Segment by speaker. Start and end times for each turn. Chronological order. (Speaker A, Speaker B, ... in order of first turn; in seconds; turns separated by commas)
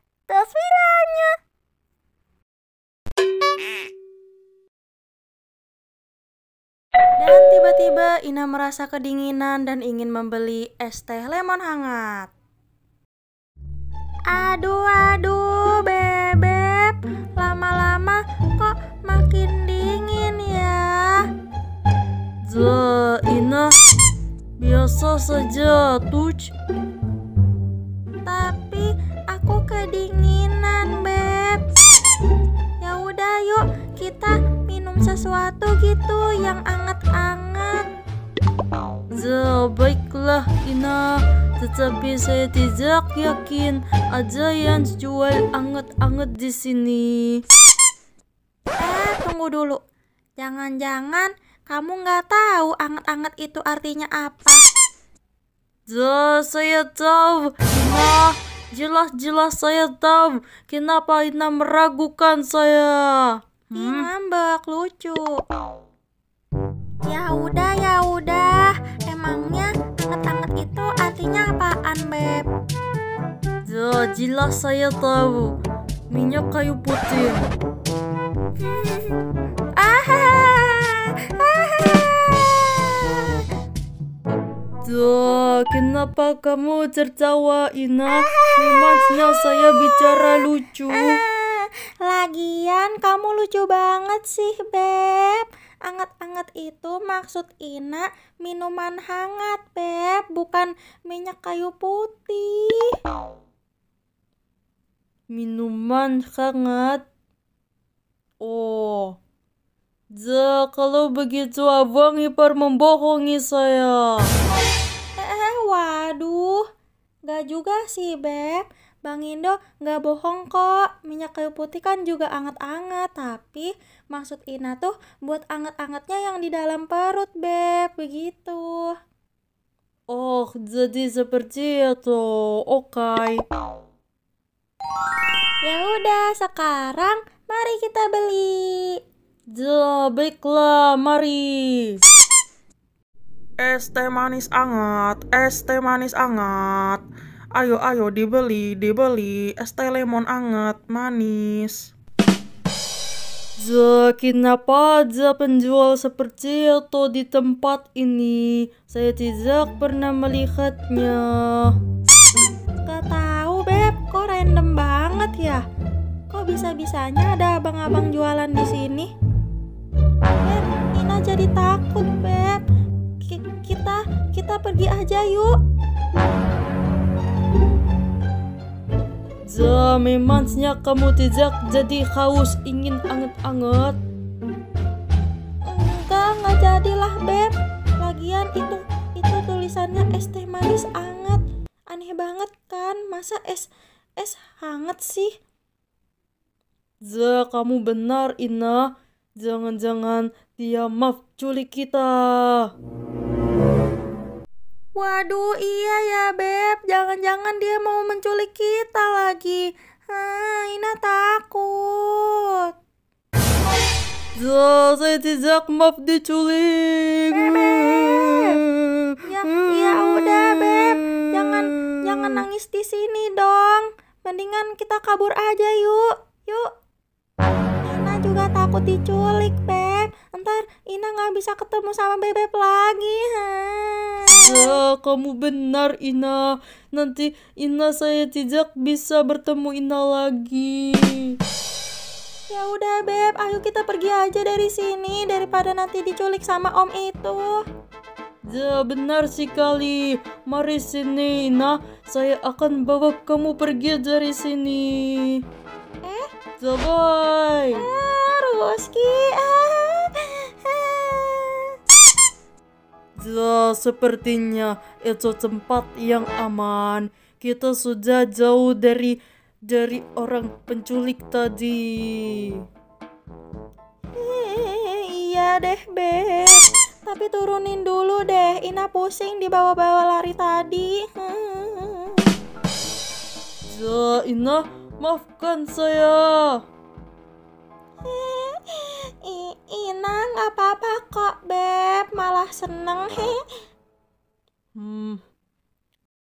Speaker A: 0.3-1.3, Speaker A: 7.2-12.3, Speaker A: 14.3-21.2, Speaker B: 22.4-23.8, Speaker B: 24.6-26.5, Speaker A: 28.2-31.6, Speaker A: 32.8-37.9, Speaker B: 39.1-47.4, Speaker A: 48.8-49.8, Speaker A: 50.4-54.6, Speaker B: 55.9-64.1, Speaker A: 63.7-65.4, Speaker A: 67.0-72.5, Speaker B: 73.6-75.6, Speaker B: 76.1-77.5, Speaker A: 78.6-79.2, Speaker A: 79.8-83.3, Speaker B: 84.8-91.2, Speaker A: 88.3-102.9, Speaker B: 105.3-107.0, Speaker B: 108.4-109.2, Speaker B: 110.1-114.3, Speaker A: 115.2-116.6, Speaker A: 117.3-128.9, Speaker B: 130.1-133.4, Speaker A: 135.6-139.0, Speaker B: 139.5-142.0, Speaker C: 143.6-147.0, Speaker C: 147.5-151.9, Speaker B: 153.6-161.7, Speaker A: 162.8-165.6, Speaker A: 166.3-169.1, Speaker A: 170.4-172.6, Speaker A: 173.2-175.5, Speaker B: 179.4-183.9, Speaker A: 185.6-195.3, Speaker B: 197.0-198.9, Speaker B: 199.4-202.7, Speaker A: 205.0-212.7, Speaker B: 214.3-222.3, Speaker A: 217.3-218.6, Speaker A: 219.2-226.7, Speaker A: 227.8-234.8, Speaker B: 234.3-241.4, Speaker A: 242.5-247.6, Speaker B: 248.4-255.4, Speaker A: 256.0-256.3, Speaker B: 256.6-257.8, Speaker A: 257.7-261.7, Speaker B: 263.2-272.6, Speaker A: 274.1-282.4, Speaker B: 283.7-286.6, Speaker A: 288.0-293.4, Speaker B: 294.7-295.2